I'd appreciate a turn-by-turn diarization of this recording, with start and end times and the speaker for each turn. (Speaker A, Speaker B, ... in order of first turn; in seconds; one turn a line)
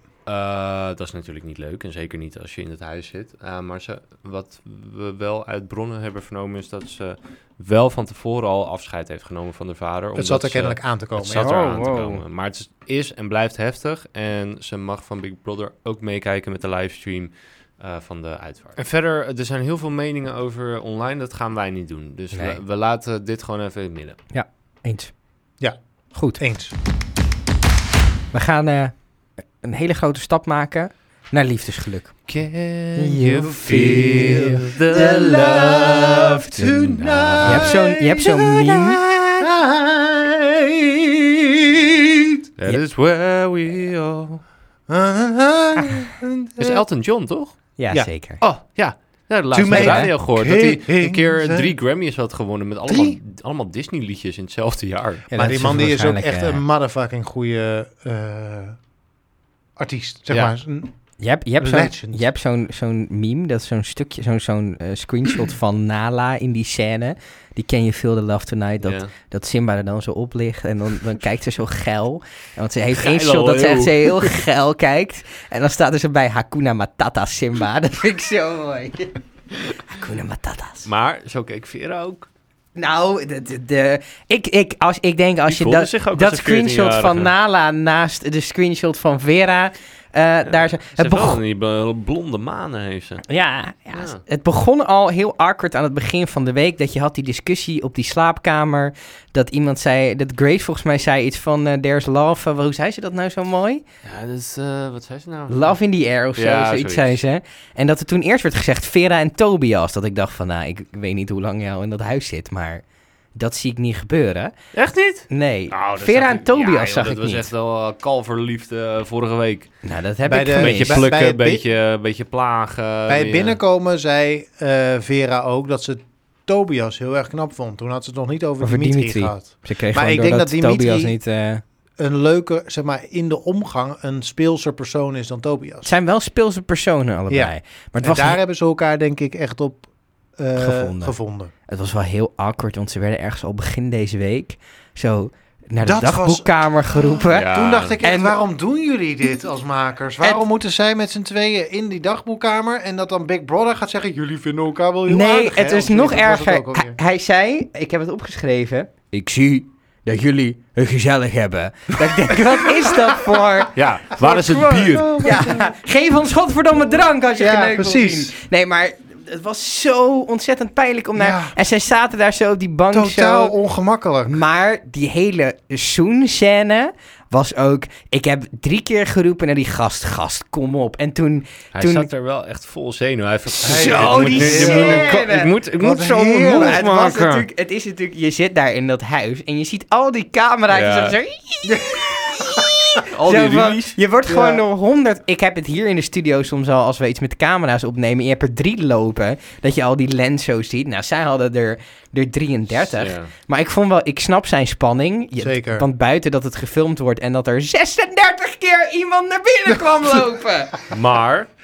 Speaker A: 0.2-24.2
Speaker B: 10.1-11.6
Speaker C: 11.4-12.2
Speaker C: 22.3-22.6
Speaker C: 24.3-25.1
Speaker C: 26.1-26.4
Speaker B: 26.4-26.7
Speaker C: 28.3-29.1
Speaker C: 29.6-32.2
Speaker A: 32.3-37.7
Speaker C: 33.0-34.3
Speaker B: 33.4-42.4
Speaker C: 37.4-39.0
Speaker A: 42.6-44.4
Speaker B: 44.9-46.8
Speaker A: 46.6-47.5
Speaker C: 47.8-48.4
Speaker A: 48.4-55.3
Speaker B: 49.5-51.7
Speaker C: 49.7-50.1
Speaker B: 52.9-53.2
Speaker B: 55.3-58.8
Speaker C: 55.3-56.6
Speaker B: 59.8-60.9
Speaker C: 61.2-79.2
Speaker B: 61.6-62.2
Speaker A: 68.8-69.1
Speaker A: 72.9-74.3
Speaker C: 79.9-80.9
Speaker A: 80.8-82.3
Speaker C: 82.8-91.4
Speaker A: 85.5-87.3
Speaker A: 90.5-93.2
Speaker C: 93.3-103.8
Speaker A: 93.9-94.2
Speaker A: 104.0-105.7
Speaker C: 105.5-112.8
Speaker A: 106.3-107.2
Speaker C: 113.3-114.5
Speaker A: 114.7-119.7
Speaker C: 115.3-117.5
Speaker C: 119.8-121.1
Speaker B: 120.3-121.6
Speaker A: 120.5-123.6
Speaker B: 123.1-131.2
Speaker C: 128.6-131.6
Speaker B: 132.0-135.9
Speaker C: 135.8-138.4
Speaker B: 137.3-139.8
Speaker B: 140.4-141.5
Speaker C: 140.6-141.1
Speaker C: 141.7-147.5
Speaker B: 145.8-157.0
Speaker A: 147.3-148.0
Speaker C: 148.0-148.3
Speaker C: 155.1-163.7
Speaker A: 163.7-165.3
Speaker B: 164.2-165.7
Speaker C: 165.2-173.5
Speaker B: 167.3-168.4
Speaker B: 171.2-171.6
Speaker B: 172.9-174.4
Speaker C: 174.3-182.1
Speaker A: 181.7-187.5
Speaker B: 183.6-185.2
Speaker C: 183.6-185.5
Speaker B: 185.8-187.2
Speaker C: 186.5-210.8
Speaker A: 190.7-191.2
Speaker B: 191.7-192.6
Speaker A: 193.0-194.0
Speaker B: 194.3-194.6
Speaker A: 203.0-203.3
Speaker B: 205.4-205.8
Speaker A: 210.9-211.5